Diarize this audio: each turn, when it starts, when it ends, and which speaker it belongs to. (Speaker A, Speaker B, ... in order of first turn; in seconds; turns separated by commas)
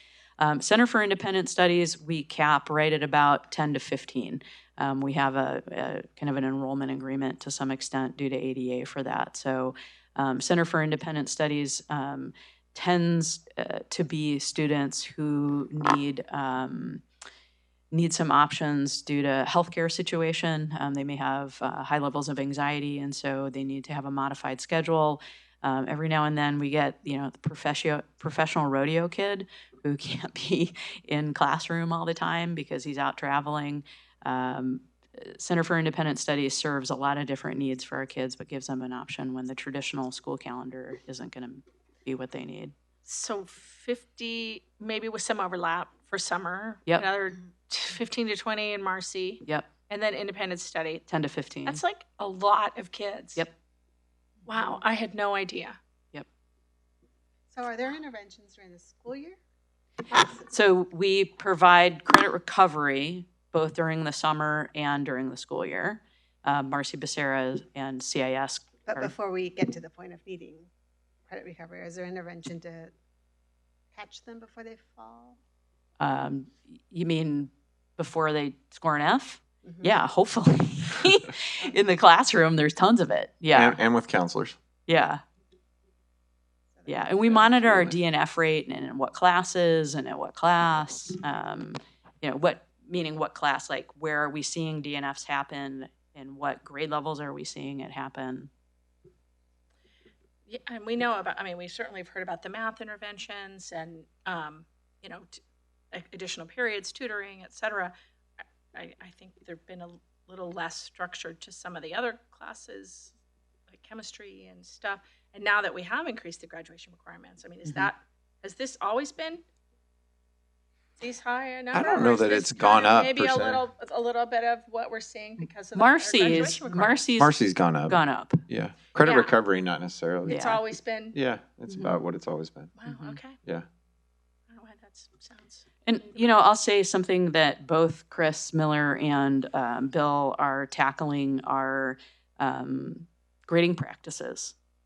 Speaker A: 0.4-17.0, Speaker A: 17.9-42.7, Speaker B: 43.0-51.0, Speaker A: 49.4-49.7, Speaker A: 51.1-51.8, Speaker B: 51.6-53.4, Speaker B: 54.5-55.8, Speaker C: 57.5-59.4, Speaker C: 60.1-60.4, Speaker A: 60.5-69.1, Speaker C: 68.9-70.7, Speaker C: 71.3-72.9, Speaker C: 73.9-75.4, Speaker A: 76.0-83.8, Speaker C: 79.7-79.9, Speaker D: 83.5-84.6, Speaker A: 84.9-85.2, Speaker C: 86.8-87.6, Speaker A: 86.8-98.5, Speaker D: 87.3-88.0, Speaker B: 100.5-105.4, Speaker B: 105.9-107.9, Speaker B: 108.7-113.1, Speaker B: 113.7-119.4, Speaker B: 121.0-127.0, Speaker D: 121.7-123.7, Speaker A: 125.7-128.4, Speaker D: 127.2-130.5, Speaker B: 128.9-129.4, Speaker A: 130.2-130.6, Speaker B: 130.3-131.2, Speaker D: 131.1-132.7, Speaker A: 131.7-132.0, Speaker B: 132.8-133.4, Speaker A: 132.9-133.2, Speaker B: 134.5-136.2, Speaker A: 135.8-144.6